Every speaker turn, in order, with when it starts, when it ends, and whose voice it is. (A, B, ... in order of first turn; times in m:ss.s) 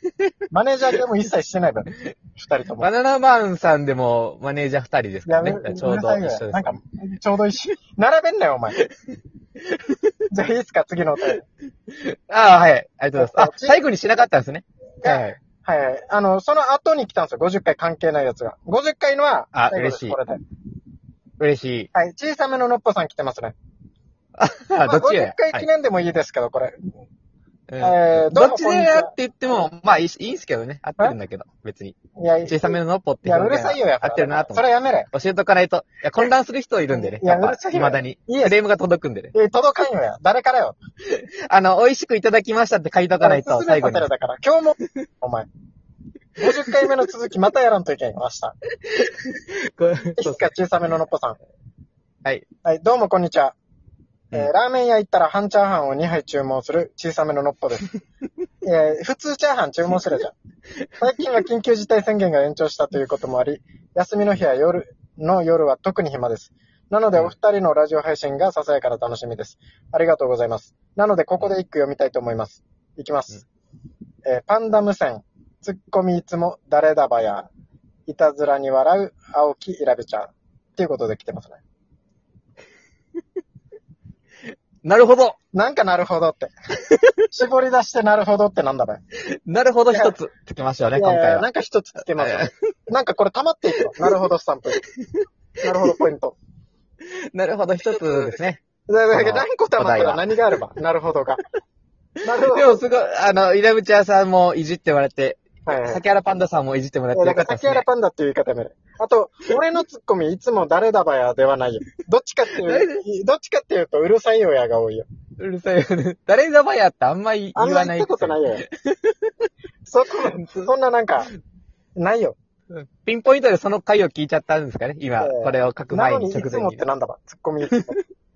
0:00.5-0:02.9 A
0:02.8-0:06.8 B
0:05.2-0:08.8 A
0:09.6-0:10.1 B
0:10.3-0:11.4 A
0:11.9-0:15.4 B
0:13.2-0:13.8 A
0:15.0-0:20.4 A
0:19.5-0:20.2 B
0:21.4-0:21.9 B
0:21.9-0:23.5 A
0:24.4-0:25.7 B
0:24.8-0:26.8 A
0:27.7-0:39.3 B
0:27.8-0:29.1 A
0:32.2-0:35.1 A
0:36.9-0:38.6 A
0:39.3-0:40.8 A
0:41.1-0:44.1 B
0:43.2-0:45.5 A
0:46.4-0:48.6 A
0:46.5-0:46.9 B
0:48.8-0:50.5 B
0:50.2-0:51.4 A
0:52.6-0:53.5 A
0:54.3-0:57.9 A
0:58.6-1:00.3 A
1:01.0-1:13.4 A
1:14.2-1:17.5 A
1:18.1-1:21.6 A
1:24.8-1:25.4 B
1:25.5-1:26.5 A
1:26.9-1:27.1 B
1:27.3-1:29.0 A
1:29.2-1:31.4 B
1:31.0-1:34.8 A
1:32.2-1:32.6 B
1:33.8-1:34.2 B
1:35.0-1:35.3 B
1:35.6-1:36.4 A
1:37.3-1:40.3 B
1:38.9-1:41.4 A
1:42.2-1:42.8 A
1:42.4-1:47.8 B
1:45.6-1:46.0 A
1:47.1-1:55.1 A
1:52.6-1:53.0 B
1:55.4-1:59.5 B
1:57.6-1:58.6 A
1:59.9-2:01.3 A
2:00.3-2:00.7 B
2:02.0-2:02.4 A
2:02.7-2:06.8 B
2:05.2-2:08.0 A